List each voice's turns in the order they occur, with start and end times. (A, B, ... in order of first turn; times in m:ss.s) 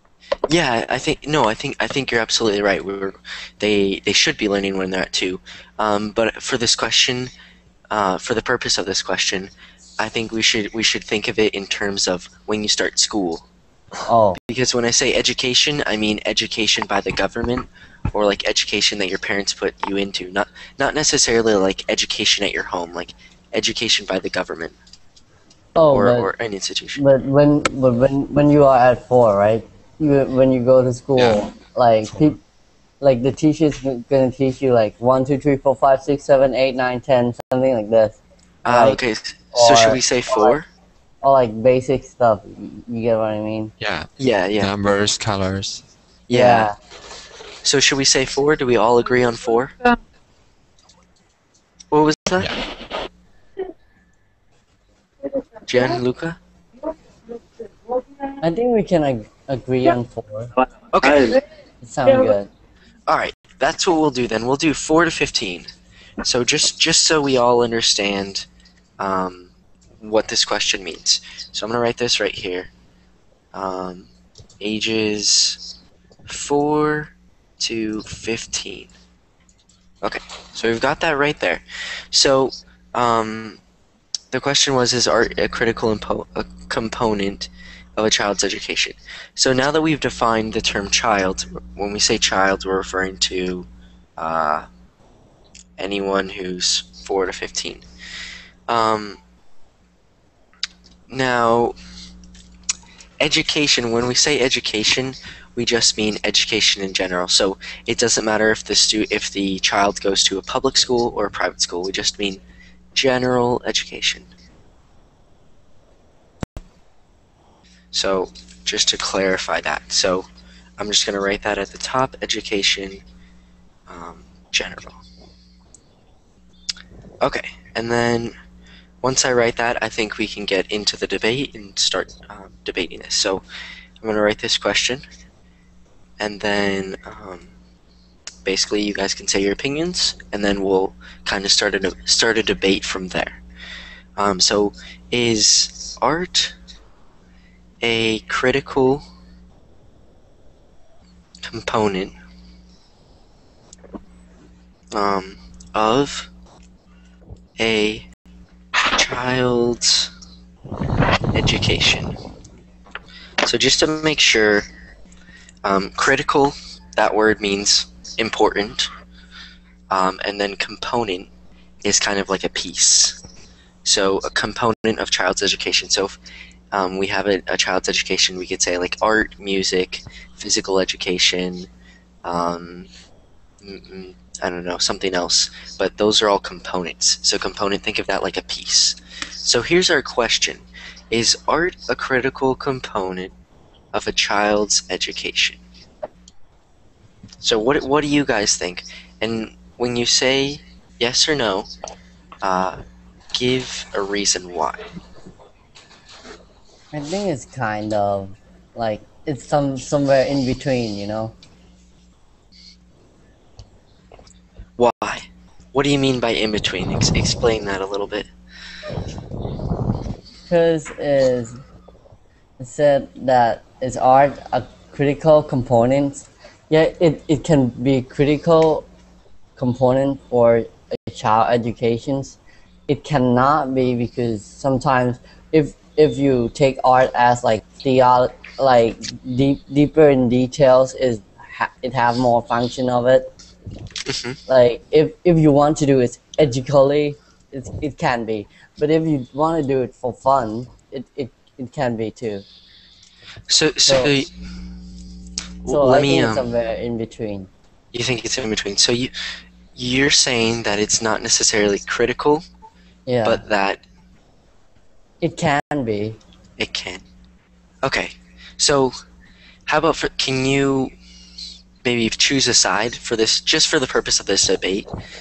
0:00.5-0:07.3 A
0:07.9-0:13.4 A
0:14.1-0:14.4 B
0:14.4-0:24.8 A
0:25.8-0:26.3 B
0:25.9-0:27.0 A
0:27.0-0:32.4 B
0:31.2-0:31.5 C
0:32.1-0:32.4 C
0:33.0-0:39.0 B
0:38.6-0:40.7 A
0:39.5-0:40.6 B
0:41.2-0:43.7 B
0:43.8-0:45.8 C
0:44.2-0:44.7 A
0:46.3-0:46.7 A
0:46.3-0:46.8 B
0:47.6-0:49.8 A
0:51.9-0:52.6 A
0:55.7-0:56.4 A
0:58.4-1:00.5 B
1:00.9-1:01.4 A
1:01.8-1:02.5 B
1:03.1-1:08.5 A
1:09.0-1:12.7 A
1:13.5-1:15.6 A
1:16.3-1:18.9 A
1:20.0-1:23.6 A
1:24.3-1:34.7 A
1:35.8-1:37.9 A
1:38.7-1:39.2 A
1:41.1-1:41.8 A
1:43.2-1:52.4 A
1:53.0-1:54.3 A
1:57.9-2:03.0 A
2:03.9-2:05.0 A
2:07.2-2:08.4 A
2:09.0-2:13.4 A
2:14.0-2:15.0 A
2:16.2-2:17.5 A
2:18.4-2:23.4 A
2:24.2-2:26.6 A
2:27.8-2:29.1 A
2:31.4-2:32.2 A
2:34.9-2:36.3 A
2:37.6-2:38.1 A
2:38.9-2:40.1 A
2:41.3-2:42.2 A
2:43.4-2:44.7 A
2:45.6-2:48.9 A
2:49.9-2:51.3 A
2:51.8-2:53.2 A
2:53.8-2:56.2 A
2:56.7-3:01.7 A
3:02.2-3:02.9 A
3:03.6-3:13.3 A
3:13.9-3:15.6 A
3:17.4-3:21.7 A
3:22.4-3:22.8 A
3:23.3-3:24.9 A
3:26.9-3:31.3 B
3:34.8-3:38.3 A
3:40.5-3:41.6 B
3:42.6-3:48.9 B
3:49.6-3:52.4 B
3:52.9-4:03.3 B
4:04.1-4:04.4 A
4:04.5-4:12.4 B
4:13.5-4:14.4 A
4:13.9-4:14.2 B
4:15.6-4:16.5 A
4:15.7-4:17.5 B
4:17.9-4:22.4 A
4:23.1-4:23.4 B
4:23.2-4:23.8 A
4:25.2-4:26.2 B
4:26.6-4:27.0 A
4:27.8-4:29.0 A
4:29.7-4:30.9 A
4:31.8-4:34.9 A